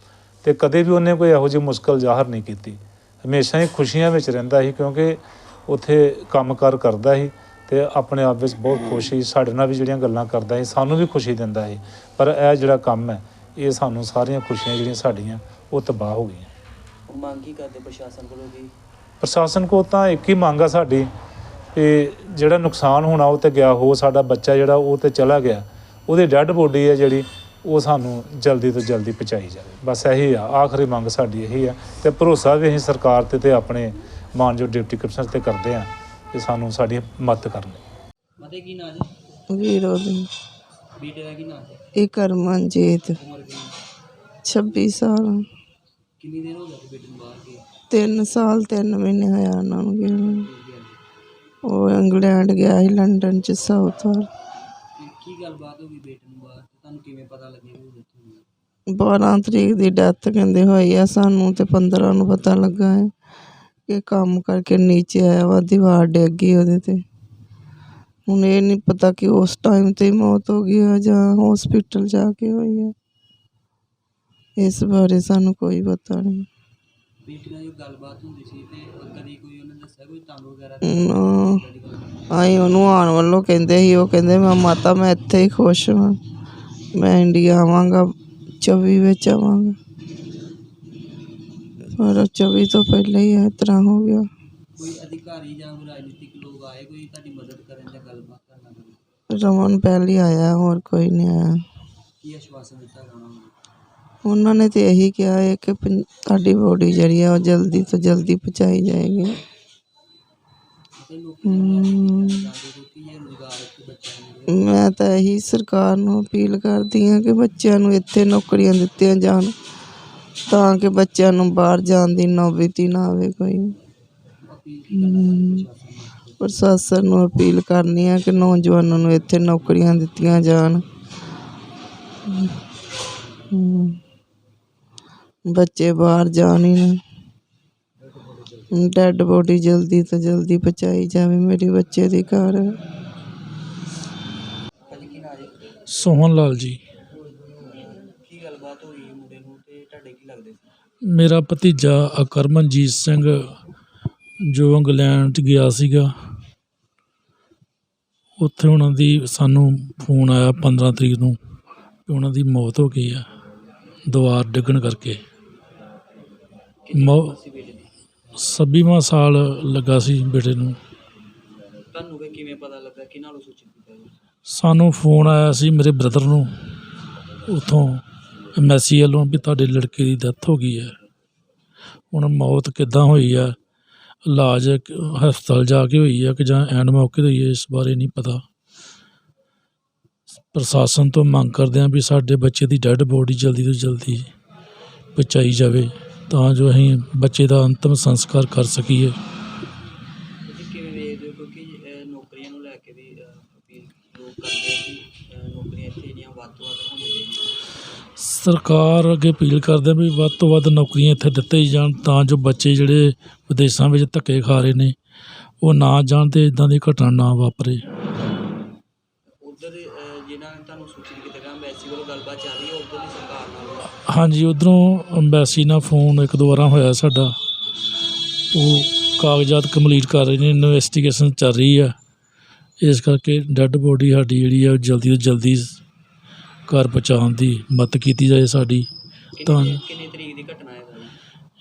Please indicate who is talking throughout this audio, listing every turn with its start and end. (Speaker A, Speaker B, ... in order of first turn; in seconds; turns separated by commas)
Speaker A: 0.4-16.5, Speaker B: 17.1-18.7, Speaker A: 19.2-21.1, Speaker A: 21.8-37.8, Speaker B: 38.4-39.1, Speaker C: 39.5-40.3, Speaker B: 41.0-41.8, Speaker C: 42.0-43.2, Speaker B: 43.2-43.8, Speaker C: 44.4-45.5, Speaker B: 46.2-47.6, Speaker C: 47.9-50.5, Speaker B: 50.3-51.0, Speaker C: 51.6-54.3, Speaker B: 55.0-58.5, Speaker C: 58.9-63.1, Speaker C: 63.9-67.0, Speaker C: 68.3-72.9, Speaker C: 74.6-76.5, Speaker B: 77.2-82.8, Speaker C: 80.8-81.6, Speaker C: 82.3-86.2, Speaker C: 87.0-89.8, Speaker C: 92.0-94.3, Speaker B: 94.8-99.0, Speaker C: 99.3-101.6, Speaker B: 102.2-103.5, Speaker C: 104.2-109.4, Speaker B: 111.0-114.8, Speaker C: 111.5-112.5, Speaker C: 114.5-119.5, Speaker C: 120.5-123.8, Speaker B: 124.4-126.6, Speaker C: 125.0-125.7, Speaker C: 126.4-130.8, Speaker B: 133.2-133.5, Speaker C: 133.5-134.0, Speaker C: 135.5-137.0, Speaker B: 138.1-138.8, Speaker C: 138.7-142.8, Speaker B: 144.9-145.8, Speaker D: 145.9-146.8, Speaker B: 147.6-150.7, Speaker D: 151.1-153.6, Speaker D: 154.5-156.1, Speaker D: 158.4-161.4, Speaker D: 162.1-163.2, Speaker D: 164.1-165.2, Speaker B: 166.8-167.9, Speaker D: 166.9-167.3, Speaker D: 168.4-170.8, Speaker B: 171.9-174.1, Speaker D: 174.5-176.5, Speaker D: 177.5-178.0, Speaker D: 178.6-180.9, Speaker D: 182.1-183.6, Speaker D: 184.2-188.4, Speaker D: 190.5-194.3, Speaker D: 195.2-199.2, Speaker B: 200.5-207.6, Speaker D: 208.2-214.9, Speaker D: 215.6-217.8, Speaker B: 219.4-223.9, Speaker D: 224.0-227.4, Speaker D: 228.5-231.9, Speaker D: 232.8-235.8, Speaker D: 236.7-238.9, Speaker B: 239.4-241.2, Speaker D: 239.4-239.8